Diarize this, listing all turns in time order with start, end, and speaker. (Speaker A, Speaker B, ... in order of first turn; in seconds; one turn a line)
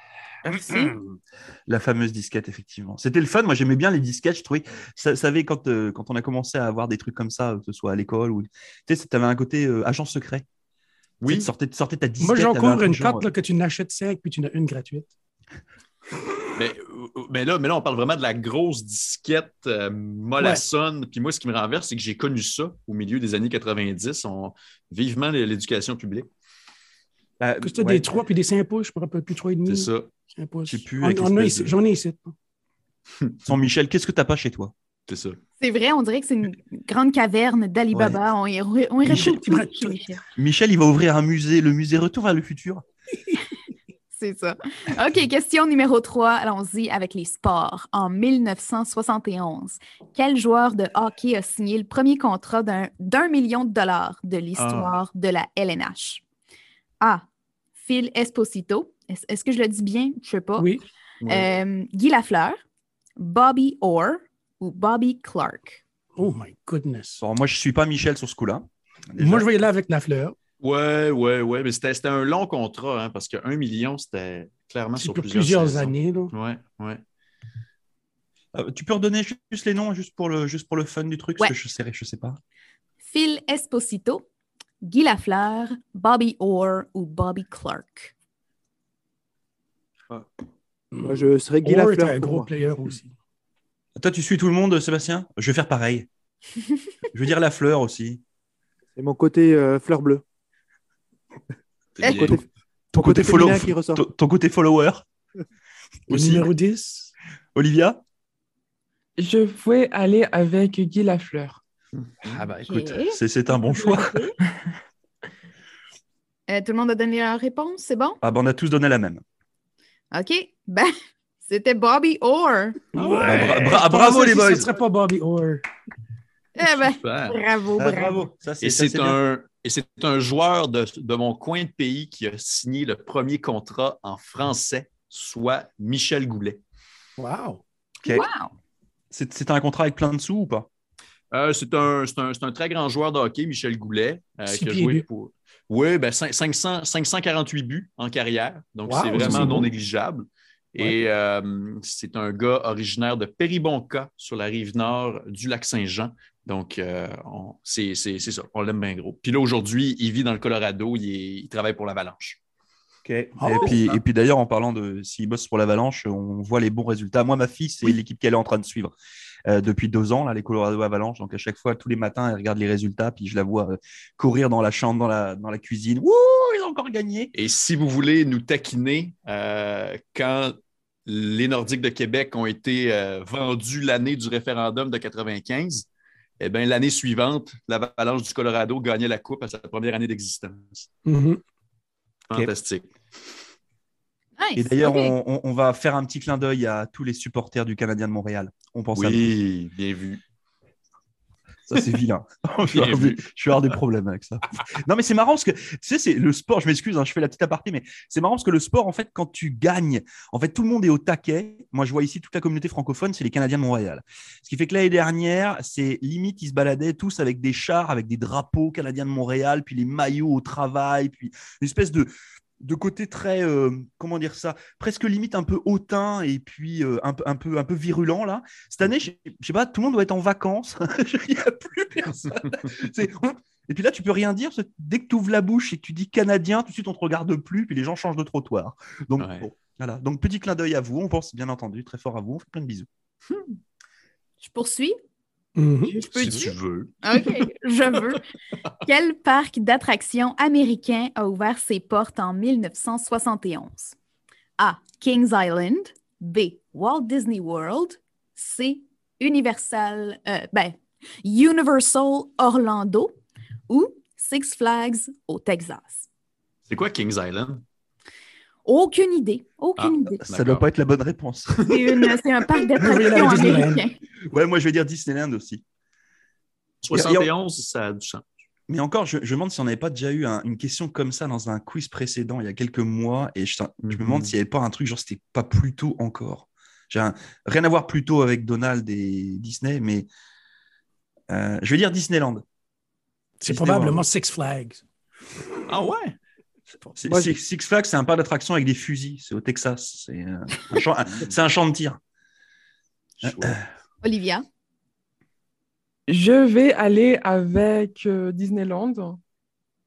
Speaker A: 0.5-0.9
Speaker B: 0.5-1.0
Speaker B: 1.7-10.4
Speaker C: 11.2-11.5
Speaker B: 11.3-13.3
Speaker D: 12.2-15.1
Speaker C: 16.6-26.3
Speaker B: 27.4-28.1
Speaker D: 27.6-32.3
Speaker C: 29.7-30.1
Speaker B: 30.7-31.8
Speaker B: 33.5-34.7
Speaker C: 35.1-35.4
Speaker E: 35.6-40.2
Speaker B: 37.9-38.2
Speaker D: 39.1-40.0
Speaker B: 40.4-42.8
Speaker E: 44.1-56.2
Speaker C: 54.6-55.0
Speaker E: 57.8-60.8
Speaker D: 60.6-60.8
Speaker C: 61.2-61.5
Speaker E: 61.3-62.6
Speaker E: 63.2-65.8
Speaker D: 66.2-67.2
Speaker B: 67.2-69.5
Speaker D: 69.2-70.3
Speaker C: 70.6-77.0
Speaker D: 75.0-76.3
Speaker B: 78.5-82.4
Speaker E: 83.1-84.2
Speaker E: 84.8-88.1
Speaker D: 90.9-93.1
Speaker F: 91.0-92.5
Speaker B: 94.0-96.1
Speaker B: 97.1-98.2
Speaker F: 99.0-100.2
Speaker C: 102.0-102.4
Speaker F: 102.1-102.4
Speaker B: 102.9-105.0
Speaker F: 103.0-104.0
Speaker B: 106.1-106.5
Speaker D: 106.1-107.1
Speaker B: 107.6-108.0
Speaker A: 109.2-111.6
Speaker C: 112.0-112.5
Speaker D: 112.3-112.9
Speaker E: 112.6-114.3
Speaker B: 113.1-114.2
Speaker E: 116.5-118.2
Speaker B: 118.2-119.2
Speaker E: 120.1-120.9
Speaker E: 121.4-122.8
Speaker D: 122.9-125.6
Speaker C: 123.0-123.8
Speaker B: 123.2-124.7
Speaker E: 126.6-128.2
Speaker C: 126.6-127.4
Speaker B: 127.8-129.2
Speaker C: 128.6-136.6
Speaker D: 137.2-137.6
Speaker E: 138.1-138.5
Speaker B: 139.1-140.7
Speaker C: 141.3-162.4
Speaker D: 144.5-145.1
Speaker D: 148.9-149.7
Speaker B: 149.2-149.6
Speaker B: 163.1-168.9
Speaker D: 163.4-163.8
Speaker C: 163.6-164.0
Speaker B: 169.5-177.3
Speaker C: 177.3-180.6
Speaker C: 181.1-185.9
Speaker C: 186.4-190.9
Speaker D: 191.1-191.4
Speaker C: 192.3-192.9
Speaker E: 194.4-195.2
Speaker B: 194.6-199.4
Speaker C: 199.0-200.2
Speaker B: 201.7-242.9
Speaker C: 202.7-203.2
Speaker C: 239.2-239.5
Speaker C: 243.3-243.6
Speaker E: 244.4-245.0
Speaker D: 245.6-245.9
Speaker E: 245.8-248.2
Speaker C: 246.1-247.1
Speaker E: 248.8-253.9
Speaker E: 254.6-263.1
Speaker E: 263.7-266.1
Speaker C: 266.7-267.6
Speaker E: 268.6-270.2
Speaker C: 269.8-270.7
Speaker B: 270.2-271.8
Speaker E: 271.7-274.0
Speaker D: 272.8-273.8
Speaker B: 272.8-273.6
Speaker B: 274.3-275.6
Speaker C: 276.8-278.2
Speaker B: 276.9-277.3
Speaker B: 278.7-290.1
Speaker C: 283.8-284.3
Speaker B: 291.3-292.4
Speaker D: 293.4-294.8
Speaker B: 293.5-294.1
Speaker C: 295.7-296.2
Speaker B: 297.0-302.0
Speaker F: 297.1-297.4
Speaker C: 303.2-303.6
Speaker E: 304.0-304.4
Speaker A: 306.1-309.2